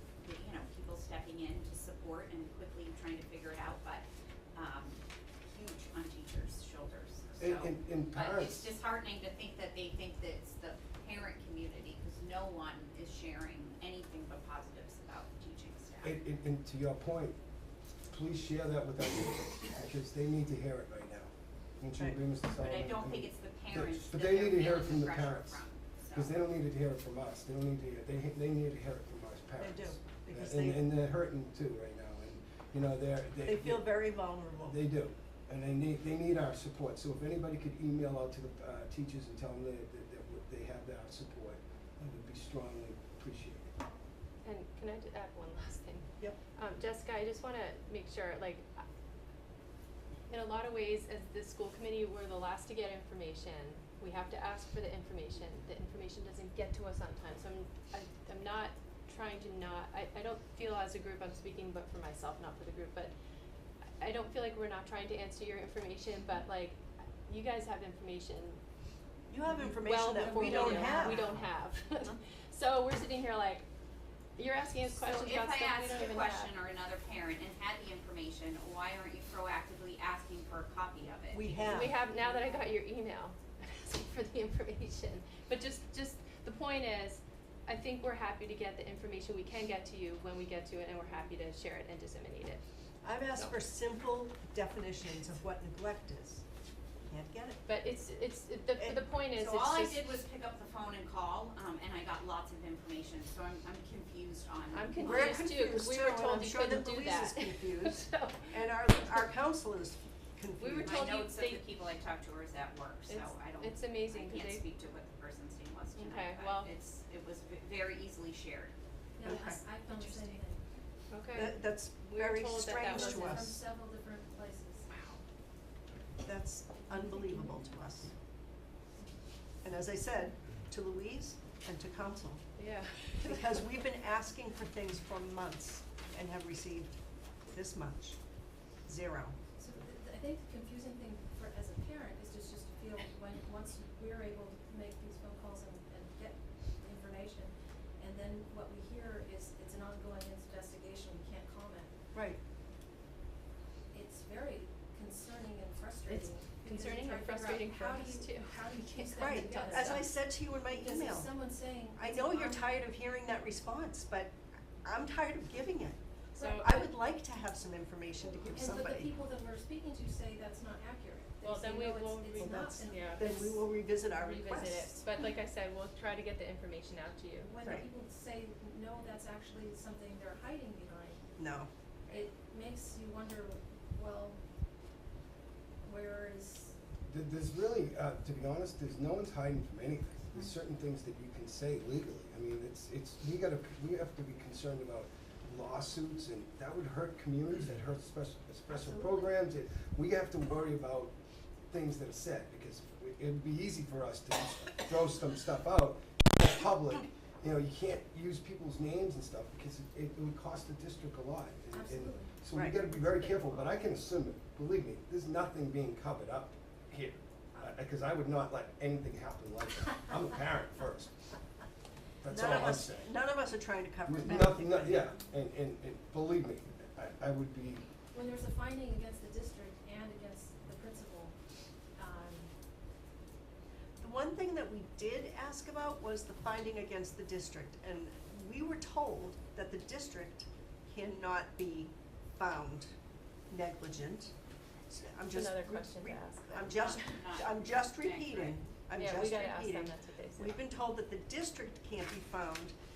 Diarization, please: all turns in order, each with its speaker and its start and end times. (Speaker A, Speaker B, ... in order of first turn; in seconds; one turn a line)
Speaker A: 0.2-16.2
Speaker B: 7.4-8.7
Speaker B: 16.0-17.4
Speaker B: 18.1-43.8
Speaker A: 22.6-26.4
Speaker C: 29.6-30.9
Speaker C: 33.5-34.8
Speaker D: 44.4-48.7
Speaker D: 50.3-63.1
Speaker D: 64.0-68.6
Speaker C: 69.3-71.4
Speaker D: 69.5-73.7
Speaker A: 70.3-71.5
Speaker D: 74.4-76.5
Speaker A: 75.0-82.4
Speaker C: 81.3-82.0
Speaker D: 81.5-92.6
Speaker C: 93.0-96.4
Speaker C: 97.1-97.6
Speaker D: 97.7-100.2
Speaker C: 98.8-99.0
Speaker A: 99.3-105.5
Speaker D: 104.7-109.2
Speaker C: 105.0-111.1
Speaker D: 110.6-111.7
Speaker A: 110.8-118.7
Speaker D: 113.1-114.7
Speaker D: 116.0-116.7
Speaker E: 119.2-120.6
Speaker C: 119.2-119.6
Speaker A: 119.8-120.8
Speaker D: 121.1-123.3
Speaker C: 121.3-123.6
Speaker E: 122.9-124.9
Speaker A: 124.9-125.2
Speaker C: 126.2-128.2
Speaker E: 126.9-127.4
Speaker C: 129.6-132.4
Speaker D: 132.6-133.8
Speaker C: 133.1-138.2
Speaker C: 138.8-139.4
Speaker E: 139.6-151.9
Speaker C: 152.1-152.4
Speaker E: 153.9-162.6
Speaker D: 156.1-160.0
Speaker C: 159.2-161.3
Speaker C: 161.9-166.0
Speaker D: 166.3-166.9
Speaker E: 166.4-166.6
Speaker C: 166.5-169.1
Speaker E: 168.5-173.5
Speaker D: 171.4-177.6
Speaker C: 172.4-175.1
Speaker E: 177.4-181.2
Speaker C: 177.6-177.9
Speaker C: 181.4-182.1
Speaker E: 182.1-184.4
Speaker E: 185.8-186.8
Speaker B: 187.1-201.2
Speaker B: 201.7-221.2
Speaker E: 211.7-212.5
Speaker C: 212.5-212.8
Speaker D: 212.8-213.8
Speaker B: 222.2-223.2
Speaker C: 222.3-225.2
Speaker B: 224.1-227.9
Speaker E: 228.1-231.4
Speaker E: 232.0-232.5
Speaker C: 234.0-242.9
Speaker C: 243.5-244.3
Speaker C: 244.9-252.7
Speaker D: 245.3-246.9
Speaker A: 246.7-248.6
Speaker D: 248.9-250.5